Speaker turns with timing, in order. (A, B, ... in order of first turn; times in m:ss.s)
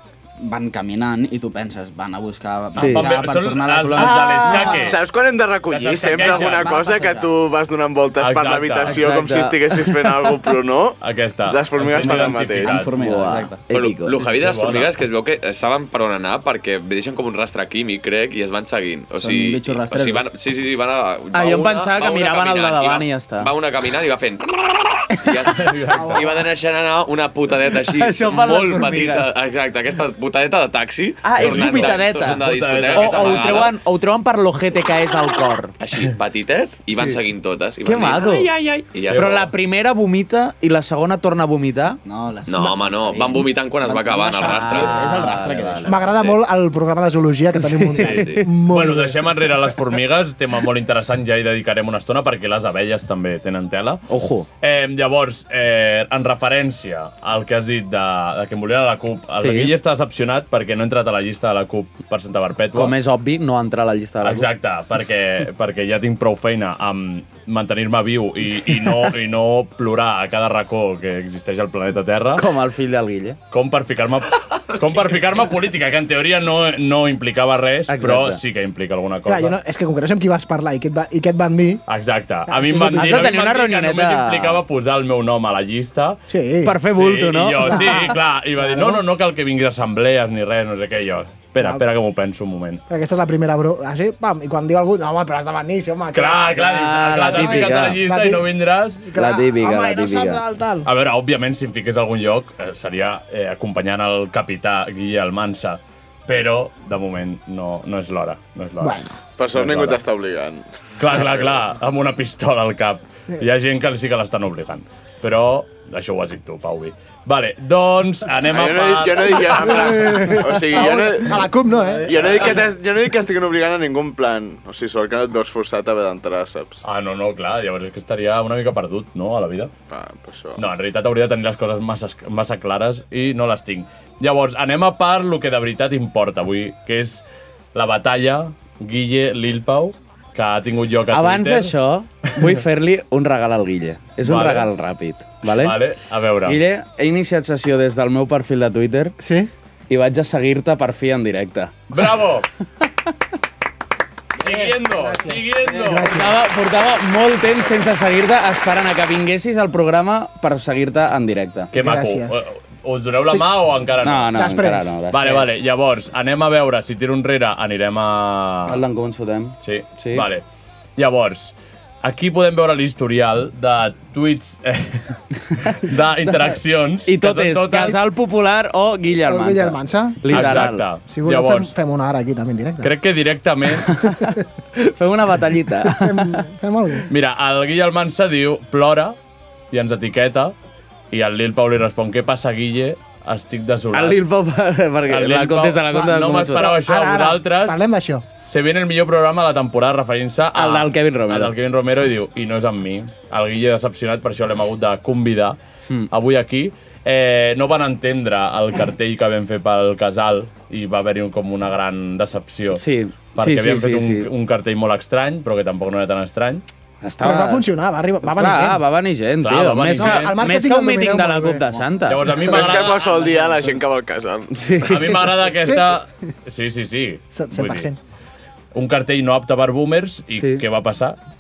0:00.4-0:04.8 A
0:02.7-0:03.1 B
0:02.7-0:05.0 C
0:03.9-0:04.9 B
0:04.7-0:12.7 D
0:05.7-0:06.7 C
0:06.2-0:07.3 A
0:08.2-0:09.0 C
0:08.8-0:09.6 B
0:11.0-0:12.9 C
0:11.9-0:13.6 A
0:12.6-0:14.2 B
0:13.7-0:33.8 E
0:14.3-0:14.9 C
0:19.2-0:20.3 A
0:21.3-0:23.5 B
0:25.6-0:26.2 C
0:27.9-0:29.3 B
0:31.2-0:35.7 B
0:31.4-0:33.6 C
0:35.8-0:39.5 E
0:37.8-0:38.5 B
0:39.1-0:39.3 C
0:39.1-0:42.0 B
0:42.0-0:46.0 A
0:42.5-0:45.3 E
0:44.2-0:45.9 B
0:45.8-0:49.5 F
0:45.9-0:46.4 E
0:47.6-0:48.3 B
0:48.0-0:48.4 E
0:48.0-0:54.0 C
0:54.1-0:54.5 B
0:54.6-1:03.0 C
0:59.4-0:59.7 B
1:02.7-1:04.5 B
1:04.2-1:12.5 C
1:08.6-1:08.9 B
1:12.3-1:13.4 B
1:13.5-1:19.5 C
1:17.9-1:18.4 B
1:19.2-1:21.8 F
1:21.9-1:26.2 C
1:22.5-1:23.4 F
1:22.9-1:24.6 B
1:26.3-1:26.8 F
1:26.6-1:28.1 B
1:26.9-1:32.8 C
1:27.6-1:29.0 F
1:32.9-1:38.5 F
1:36.1-1:39.0 C
1:36.6-1:38.0 B
1:39.0-1:40.9 F
1:39.1-1:40.4 B
1:40.8-1:49.0 C
1:48.8-1:49.2 F
1:49.4-1:51.2 D
1:49.5-1:50.0 C
1:51.0-2:00.1 C
1:58.5-2:01.4 D
1:59.4-2:02.1 F
2:02.0-2:06.8 D
2:06.8-2:09.7 C
2:09.9-2:10.6 D
2:10.6-2:17.2 C
2:17.7-2:21.7 C
2:21.1-2:25.8 B
2:24.2-2:24.7 C
2:25.4-2:26.6 C
2:26.4-2:29.2 B
2:29.2-2:29.5 F
2:29.9-2:31.8 B
2:31.9-2:32.5 C
2:34.4-2:36.2 C
2:34.4-2:36.4 F
2:35.9-2:41.7 B
2:41.7-2:48.8 C
2:41.7-2:42.4 F
2:44.0-2:45.5 B
2:44.3-2:45.0 F
2:48.7-2:50.2 B
2:49.6-2:50.4 C
2:51.0-2:58.0 C
2:57.0-3:00.8 B
2:59.2-3:02.9 F
3:00.3-3:01.7 C
3:02.8-3:04.1 C
3:04.8-3:06.4 B
3:05.8-3:07.0 F
3:07.1-3:09.2 C
3:09.7-3:10.5 C
3:11.1-3:14.2 C
3:13.9-3:16.7 B
3:15.1-3:17.8 C
3:16.5-3:18.2 F
3:18.4-3:25.6 C
3:20.5-3:21.5 B
3:26.1-3:32.8 C
3:32.7-3:34.3 B
3:33.3-3:36.6 C
3:37.0-3:37.6 B
3:37.2-3:38.8 F
3:38.2-3:42.4 B
3:39.4-3:40.4 C
3:40.0-3:41.7 F
3:42.1-3:43.1 C
3:42.4-3:44.9 D
3:44.5-3:45.2 B
3:44.8-3:47.9 C
3:47.3-3:48.0 F
3:48.7-3:51.2 C
3:50.4-3:50.6 B